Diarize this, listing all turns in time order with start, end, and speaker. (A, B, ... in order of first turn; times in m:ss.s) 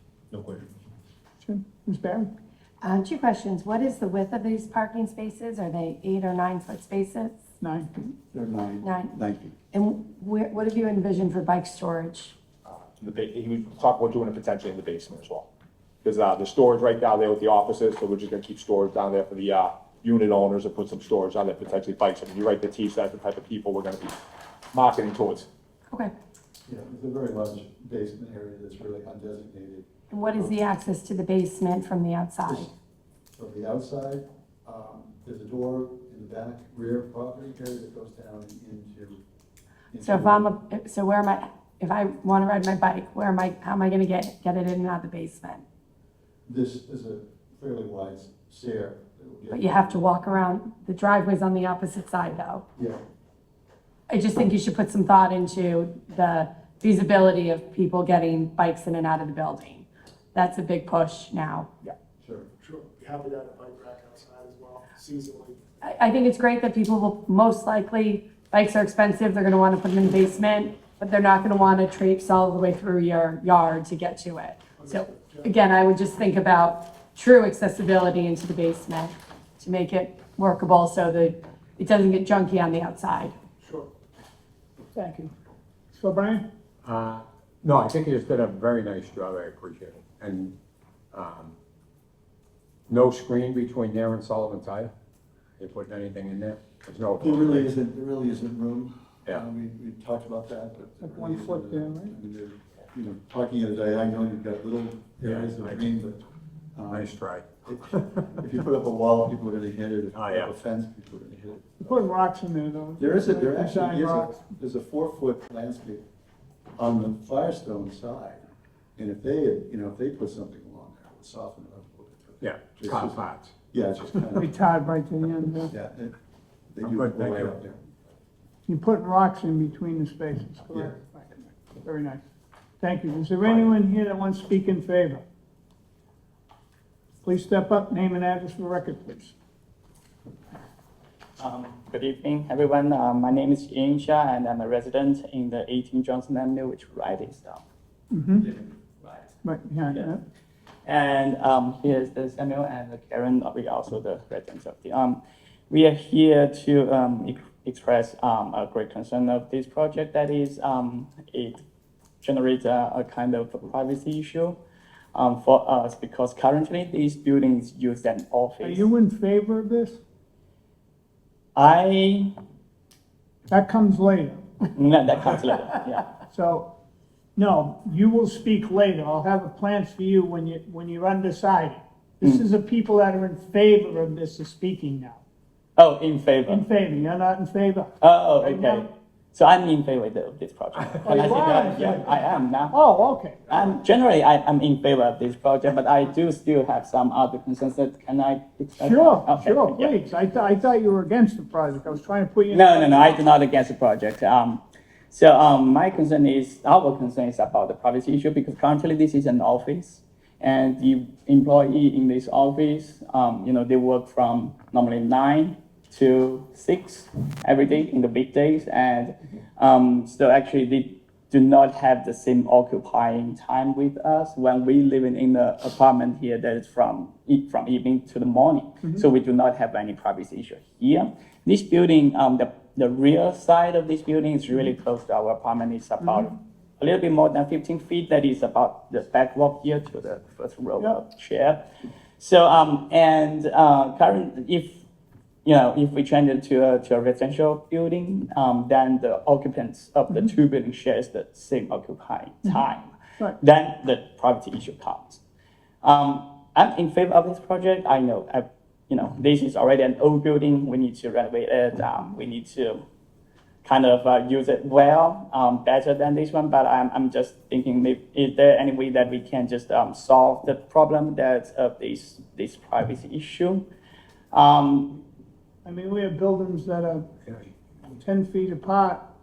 0:01.4-0:02.3 A
0:02.8-0:07.4 B
0:07.6-0:08.1 A
0:08.3-0:09.6 C
0:08.8-0:09.2 B
0:09.7-0:12.3 B
0:12.7-0:15.5 D
0:16.0-0:24.2 D
0:24.7-0:25.5 D
0:26.7-0:30.6 C
0:30.1-0:32.6 B
0:32.4-0:32.7 C
0:33.3-0:39.2 C
0:39.9-0:40.5 C
0:40.0-0:45.6 B
0:46.4-0:50.0 C
0:49.5-0:52.6 B
0:54.1-1:01.7 B
1:02.2-1:02.5 C
1:02.6-1:05.6 E
1:05.8-1:23.4 B
1:14.8-1:15.5 E
1:23.6-1:23.9 E
1:24.9-1:25.3 A
1:25.9-1:26.4 A
1:26.8-1:30.6 F
1:31.1-1:31.5 F
1:32.9-1:34.9 F
1:35.6-1:37.7 F
1:37.2-1:52.0 C
1:41.0-1:42.1 A
1:45.2-1:45.8 F
1:46.9-1:47.5 F
1:50.1-1:50.5 F
1:51.8-1:54.3 A
1:53.0-1:56.0 C
1:56.8-1:58.4 C
1:59.0-2:04.5 C
2:02.4-2:03.5 F
2:04.3-2:05.7 A
2:05.7-2:06.1 C
2:06.7-2:07.9 C
2:06.8-2:07.6 F
2:08.7-2:12.2 A
2:12.8-2:15.2 A
2:17.2-2:19.3 A
2:21.4-2:27.6 G
2:28.1-2:28.5 A
2:28.4-2:29.3 G
2:29.4-2:30.2 A
2:30.8-2:41.6 G
2:42.2-2:44.6 G
2:45.1-2:48.9 G
2:48.6-2:50.0 A
2:51.6-2:52.3 G
2:53.5-2:54.4 A
2:54.7-2:56.1 G
2:56.3-2:56.7 A
2:57.4-3:05.2 A
3:05.8-3:06.6 G
3:06.5-3:07.9 A
3:08.0-3:12.7 G
3:08.4-3:08.8 A
3:11.0-3:13.6 A
3:13.5-3:20.0 G
3:18.8-3:23.2 A
3:22.5-4:01.6 G
4:02.2-4:04.8 G
4:05.4-4:15.2 G
4:15.8-4:22.8 G
4:23.6-4:33.6 G
4:34.3-4:35.0 G
4:35.6-4:37.1 A
4:38.0-4:39.0 A